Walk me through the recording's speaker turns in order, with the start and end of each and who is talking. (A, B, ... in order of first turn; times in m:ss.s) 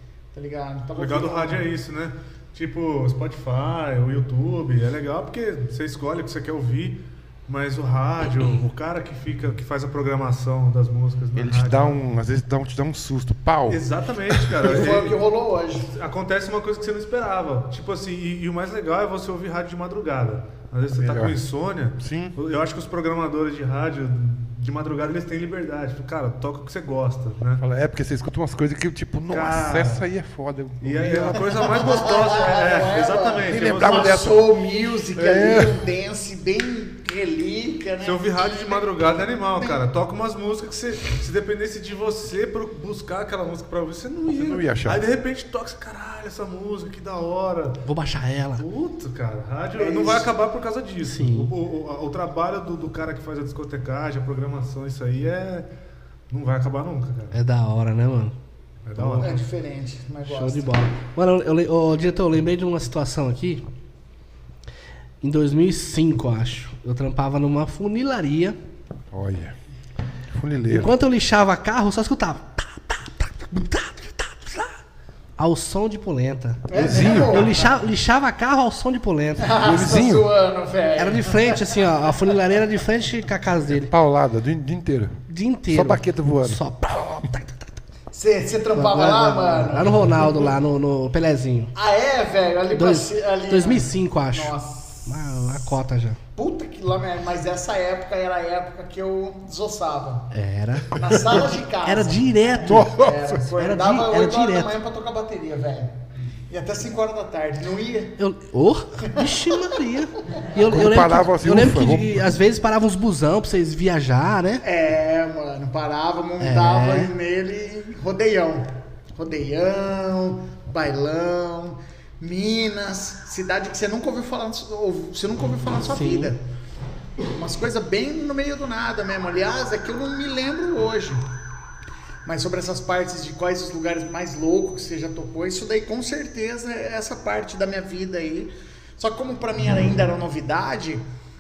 0:00.3-0:01.6 A
0:01.0-0:12.0 B
0:11.4-0:14.6 C
0:13.7-0:15.2 B
0:14.6-0:15.9 A
0:15.9-0:27.6 B
0:20.9-0:21.4 C
0:22.0-0:22.4 C
0:27.6-0:31.7 C
0:29.3-0:30.0 B
0:30.8-0:34.2 B
0:31.6-0:39.8 A
0:33.4-0:34.5 C
0:35.1-0:35.8 C
0:38.0-0:47.8 B
0:44.3-0:45.0 C
0:47.8-0:48.6 D
0:48.6-0:55.7 B
0:49.8-0:50.3 A
0:51.0-0:51.5 D
0:56.3-0:57.4 B
0:57.3-0:58.3 D
0:58.8-0:59.4 B
0:59.0-0:59.4 D
0:59.2-1:00.7 A
1:00.2-1:03.6 D
1:05.2-1:08.6 D
1:09.1-1:09.5 C
1:10.3-1:10.9 C
1:10.7-1:14.8 D
1:15.4-1:19.6 D
1:16.7-1:17.8 A
1:16.7-1:17.5 C
1:19.4-1:21.6 A
1:19.6-1:20.3 C
1:21.0-1:23.9 D
1:23.8-1:26.6 C
1:25.3-1:27.8 D
1:28.1-1:30.5 A
1:28.7-1:31.7 D
1:31.7-1:35.8 A
1:32.7-1:36.2 D
1:36.4-1:40.3 A
1:40.3-1:42.9 D
1:40.9-1:46.0 A
1:42.6-1:43.4 C
1:43.5-1:44.8 D
1:46.5-1:48.2 A
1:48.2-1:54.6 D
1:49.1-1:49.8 A
1:50.7-1:52.4 C
1:54.6-2:06.4 A
1:56.4-1:57.1 D
2:05.8-2:06.3 D
2:07.3-2:11.2 A
2:12.2-2:21.0 A